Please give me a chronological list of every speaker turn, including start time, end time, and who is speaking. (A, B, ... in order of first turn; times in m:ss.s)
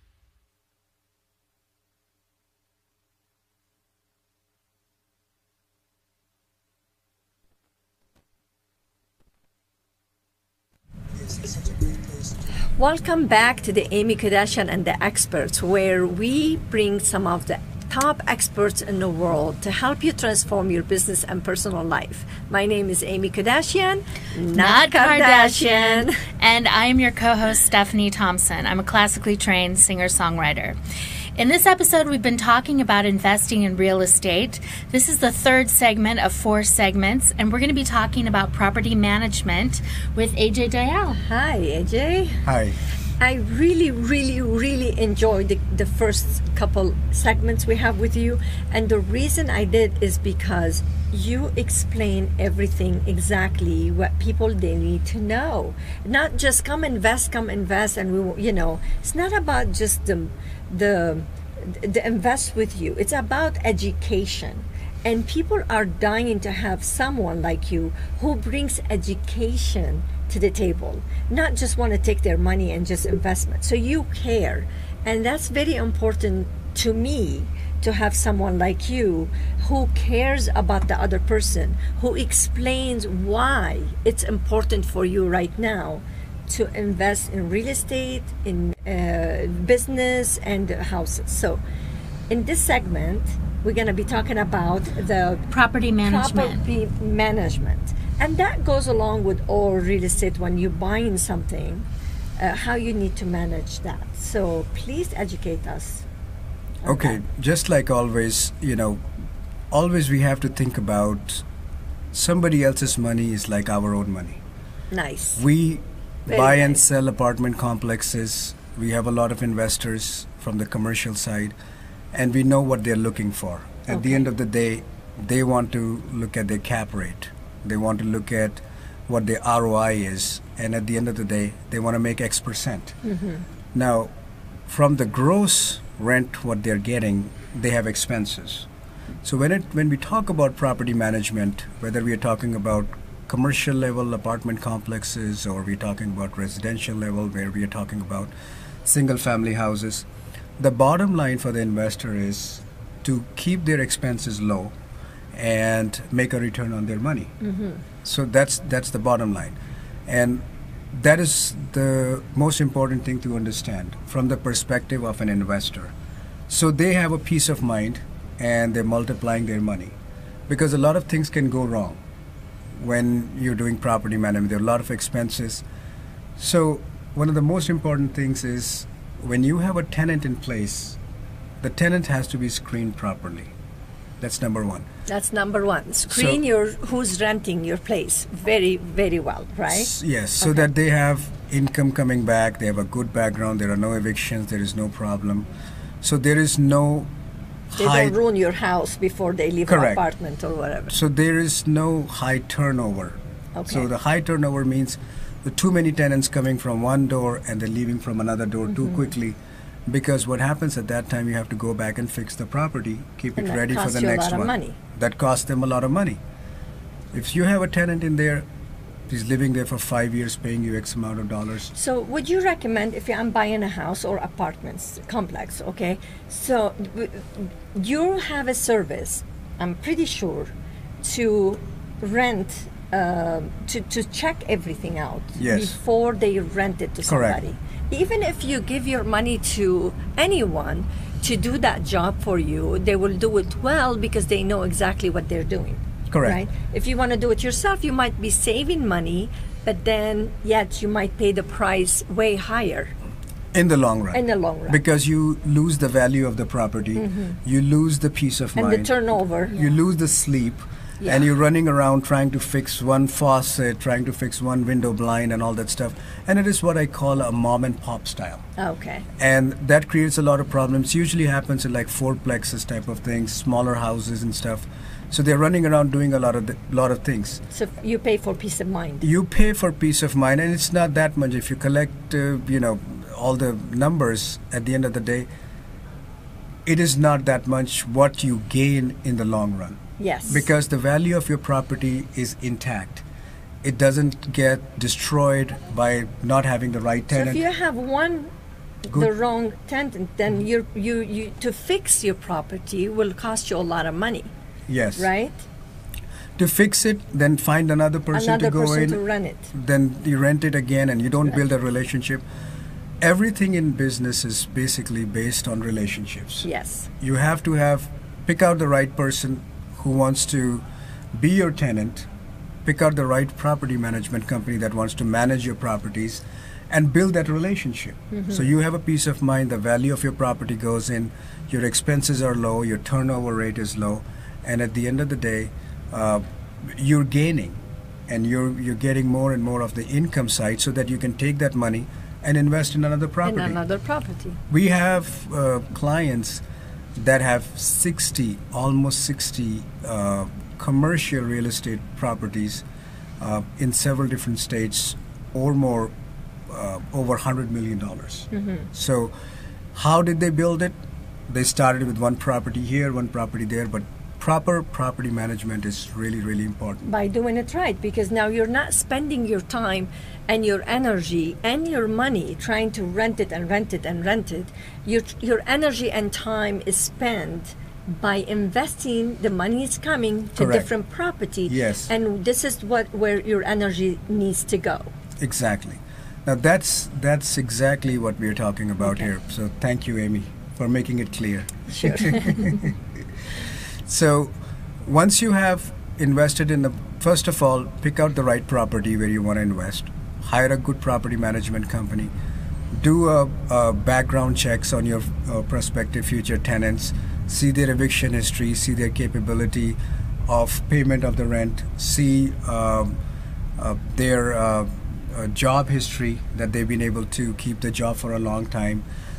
0:12.7-0:26.2 A
0:24.5-0:30.8 B
0:31.4-0:41.2 B
0:41.2-0:42.4 A
0:42.4-0:42.8 C
0:43.2-1:31.6 A
1:32.3-1:41.9 A
1:35.5-1:36.6 B
1:42.4-1:46.0 A
1:46.8-1:47.2 A
1:46.8-1:49.0 C
1:49.7-1:51.4 C
1:52.1-1:54.4 C
1:54.9-1:55.4 A
1:55.4-2:01.5 C
1:56.3-1:56.8 A
2:02.1-2:13.0 C
2:03.9-2:04.3 A
2:13.1-2:13.4 A
2:13.7-2:14.1 C
2:14.7-2:18.7 C
2:19.2-2:28.3 C
2:28.8-2:30.1 C
2:30.6-2:34.7 C
2:35.3-2:37.3 C
2:37.4-2:37.8 A
2:38.0-2:45.9 C
2:46.5-2:50.0 C
2:50.5-2:52.0 C
2:52.8-2:55.6 C
2:56.4-3:01.0 C
3:01.6-3:03.5 C
3:04.2-3:04.9 C
3:05.1-3:10.7 A
3:06.1-3:06.4 C
3:09.7-3:15.5 C
3:16.0-3:17.1 C
3:17.7-3:18.2 C
3:17.8-3:21.0 A
3:19.7-3:20.0 C
3:20.9-3:29.4 C
3:23.6-3:23.9 A
3:29.9-3:36.2 C
3:33.4-3:34.8 A
3:37.1-3:38.4 C
3:39.1-3:41.7 C
3:41.7-4:12.9 A
3:55.4-3:55.8 C
3:57.1-3:57.4 C
4:06.1-4:06.4 C
4:13.5-4:18.9 C
4:14.1-4:14.8 A
4:17.0-4:17.4 A
4:18.6-4:19.6 A
4:19.5-4:28.4 C
4:21.0-4:21.3 A
4:28.6-4:29.1 A
4:29.2-4:37.4 C
4:37.5-4:39.1 A
4:39.0-4:45.3 C
4:46.7-4:53.0 C
4:50.0-4:50.5 A
4:53.6-4:57.4 C
4:57.1-4:58.3 A
4:58.8-5:04.3 A
5:04.7-5:05.1 C
5:05.0-5:05.5 A
5:06.4-5:09.0 C
5:08.1-5:09.5 A
5:09.5-5:12.2 C
5:13.0-5:16.5 C
5:16.4-5:16.9 A
5:17.0-5:22.1 C
5:22.6-5:43.6 C
5:28.1-5:28.5 A
5:43.2-5:44.4 A
5:44.5-5:46.4 C
5:47.0-5:52.6 C
5:53.2-5:55.9 C
5:56.5-5:59.1 C
5:58.3-5:58.7 A
5:59.8-6:00.8 C
6:01.3-6:06.9 C
6:06.9-6:24.9 A
6:20.4-6:20.7 C
6:21.5-6:21.9 C
6:25.2-6:32.7 C
6:31.7-6:32.6 A
6:33.9-6:42.1 C
6:42.7-6:53.0 C
6:53.6-6:58.8 C